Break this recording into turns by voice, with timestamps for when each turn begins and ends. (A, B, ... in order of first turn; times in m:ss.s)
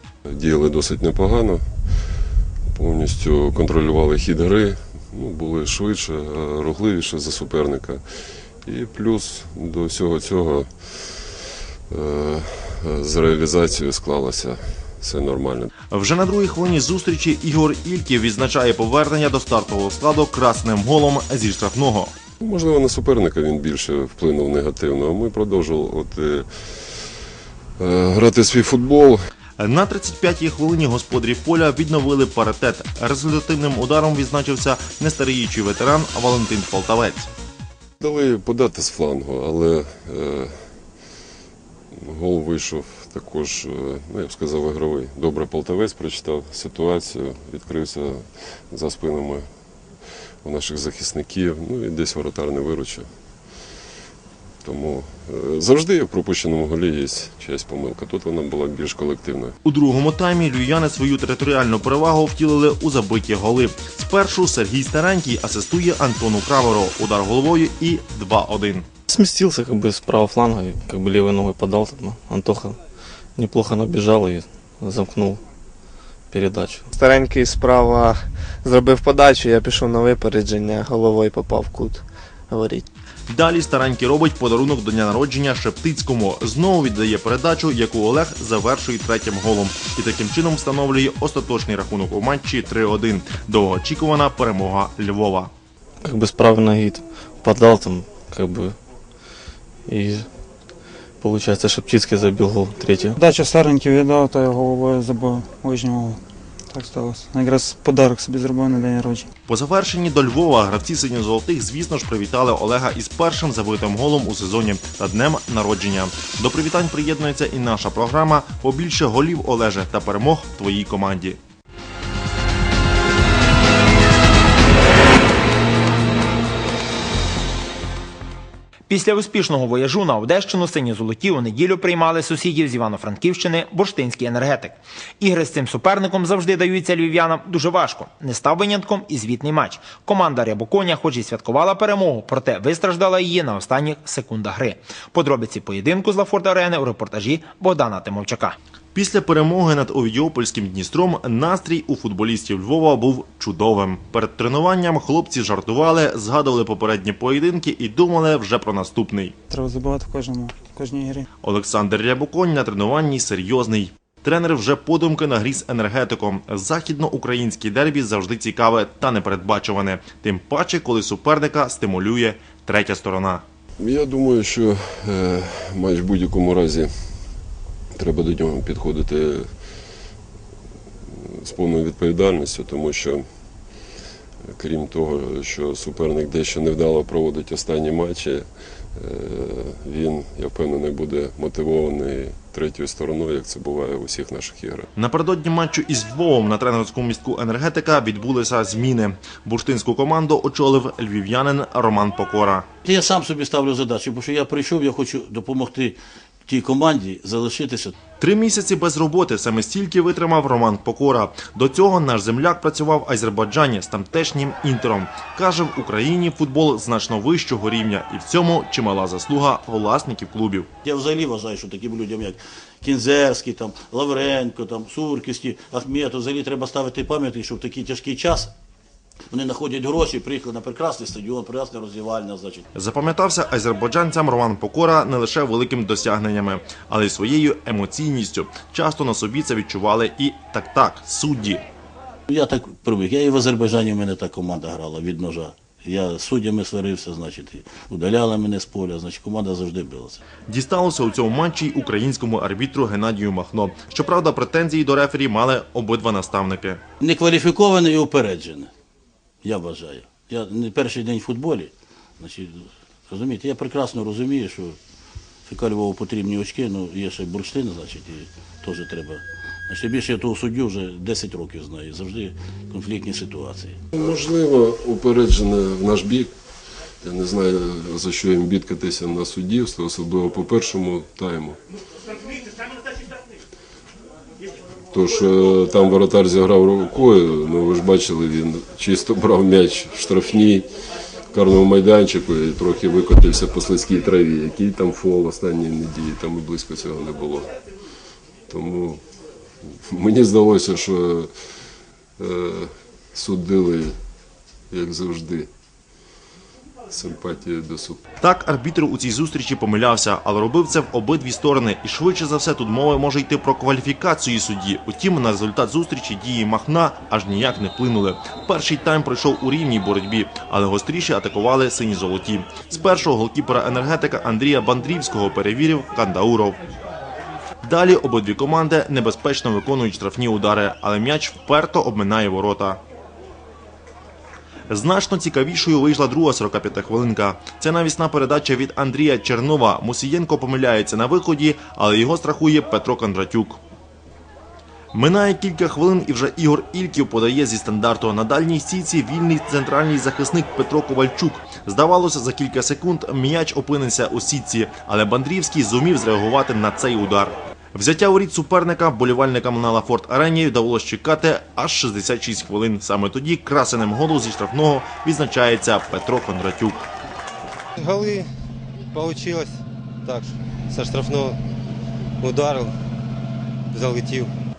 0:00.2-0:01.6 A
0:02.7-0:08.0 A
0:08.6-0:15.7 A
0:15.9-0:22.1 B
0:22.4-0:27.0 A
0:27.8-0:29.2 A
0:29.6-0:37.3 B
0:38.0-0:40.6 A
0:41.9-0:49.4 A
0:50.4-0:53.1 A
0:54.6-0:59.5 A
0:59.6-1:08.9 B
1:09.1-1:12.8 C
1:13.3-1:15.4 C
1:16.3-1:16.9 C
1:16.9-1:22.8 D
1:23.3-1:35.5 B
1:36.0-1:38.8 C
1:39.8-1:40.3 C
1:41.2-1:43.2 C
1:43.2-1:49.3 E
1:49.5-2:01.4 B
2:08.9-2:28.6 F
2:28.9-2:39.4 B
2:39.5-2:41.3 E
2:41.4-2:53.4 B
2:53.8-2:56.9 A
2:57.9-2:59.5 A
3:01.1-3:03.2 A
3:04.4-3:14.9 A
3:15.0-3:22.6 B
3:22.8-3:27.9 G
3:28.2-3:40.7 B
3:40.8-3:48.5 G
3:49.3-3:52.6 G
3:52.7-4:01.6 B
4:02.3-4:10.2 G
4:10.5-4:16.8 B
4:17.0-4:18.7 G
4:19.4-4:24.8 G
4:25.5-4:33.8 G
4:33.9-4:36.3 A
4:37.0-4:41.6 A
4:44.9-4:50.7 A
4:51.3-4:57.5 A
4:58.5-4:59.0 A
4:59.7-5:01.3 A
5:02.2-5:03.9 A
5:04.7-5:05.5 A
5:06.9-5:08.0 A
5:08.2-5:26.6 B
5:27.6-5:32.8 B
5:34.7-5:43.6 B
5:44.9-6:06.9 B
6:07.8-6:08.3 H
6:08.9-6:09.5 H
6:10.0-6:11.4 H
6:12.2-6:12.7 H
6:13.7-6:14.3 H